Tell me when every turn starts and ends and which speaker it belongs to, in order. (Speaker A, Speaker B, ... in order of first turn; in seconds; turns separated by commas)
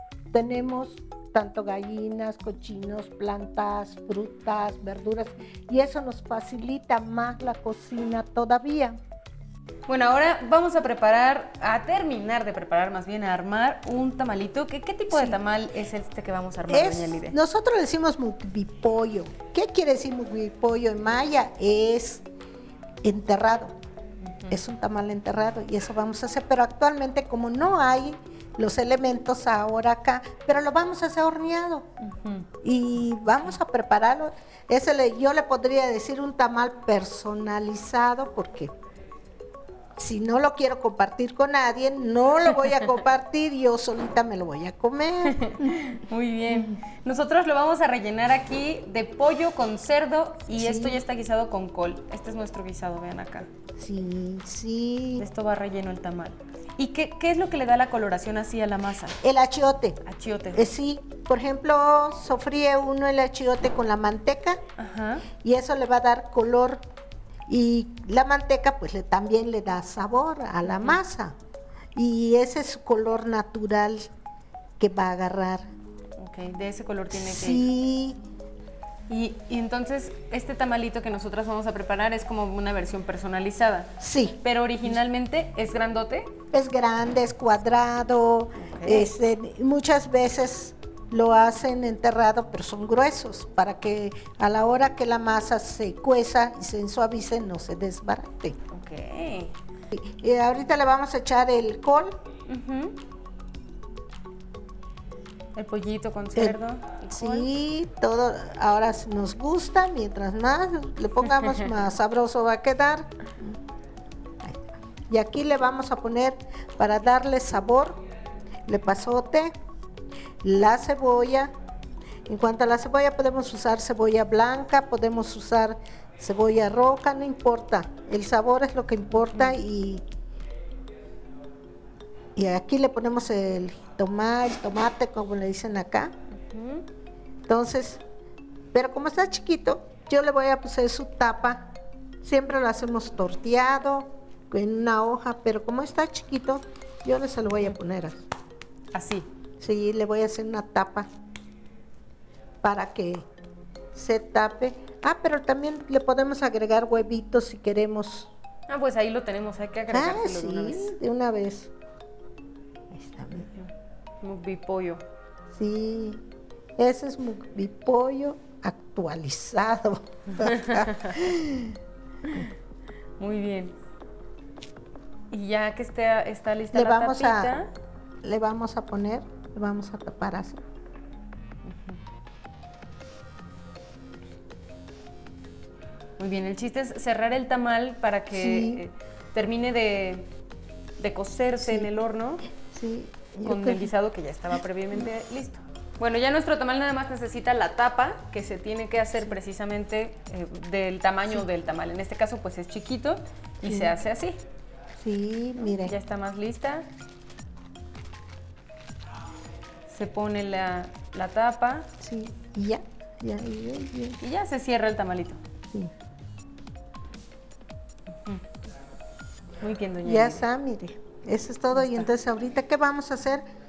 Speaker A: 0.3-9.0, Speaker B: 9.9-17.4, Speaker A: 15.1-15.4, Speaker A: 16.7-22.2, Speaker A: 23.0-23.7, Speaker B: 24.2-24.6, Speaker A: 24.5-31.9, Speaker B: 32.0-32.5, Speaker A: 32.6-38.7, Speaker A: 40.0-45.8, Speaker B: 45.2-53.5, Speaker A: 50.6-51.0, Speaker A: 53.8-55.2, Speaker B: 55.2-59.2, Speaker A: 59.2-60.0, Speaker B: 60.0-60.7, Speaker A: 60.5-64.6, Speaker B: 64.8-65.3, Speaker A: 65.3-66.8, Speaker A: 67.5-71.3, Speaker B: 70.6-71.0, Speaker A: 71.9-74.1, Speaker A: 74.8-75.7, Speaker B: 76.2-77.6, Speaker A: 77.1-78.2, Speaker B: 79.1-86.3, Speaker A: 84.0-84.4, Speaker A: 86.5-98.6, Speaker B: 88.5-89.1, Speaker B: 98.7-99.5, Speaker A: 99.9-102.2, Speaker B: 102.5-103.0, Speaker B: 105.5-107.5, Speaker A: 107.1-113.6, Speaker B: 111.3-111.8, Speaker A: 114.4-118.0, Speaker A: 118.7-119.5, Speaker A: 120.4-121.5, Speaker A: 122.3-130.0, Speaker B: 129.1-129.6, Speaker A: 132.3-136.1, Speaker B: 136.3-136.8, Speaker A: 137.5-138.0, Speaker A: 138.7-141.7, Speaker A: 142.2-148.2, Speaker B: 148.9-149.3, Speaker A: 149.6-151.1, Speaker A: 152.6-153.2, Speaker A: 153.9-158.3, Speaker B: 158.7-160.9, Speaker A: 159.9-161.7, Speaker A: 162.9-163.5, Speaker B: 164.2-165.0, Speaker A: 165.5-166.2, Speaker A: 166.8-171.8, Speaker B: 170.3-171.2, Speaker B: 172.3-172.5, Speaker B: 173.2-173.8, Speaker B: 175.3-177.7, Speaker A: 176.7-177.6, Speaker A: 178.2-180.6, Speaker B: 181.6-182.0, Speaker B: 186.2-190.3, Speaker A: 188.3-188.8, Speaker B: 191.0-192.4, Speaker A: 191.6-191.9, Speaker A: 192.6-193.9, Speaker B: 193.4-204.4, Speaker A: 203.6-203.9, Speaker A: 205.0-205.9, Speaker B: 205.6-206.9, Speaker B: 209.9-211.9, Speaker A: 212.0-214.2, Speaker B: 214.2-215.4, Speaker B: 218.1-218.5, Speaker B: 219.6-220.4, Speaker A: 220.0-223.4, Speaker B: 221.7-222.1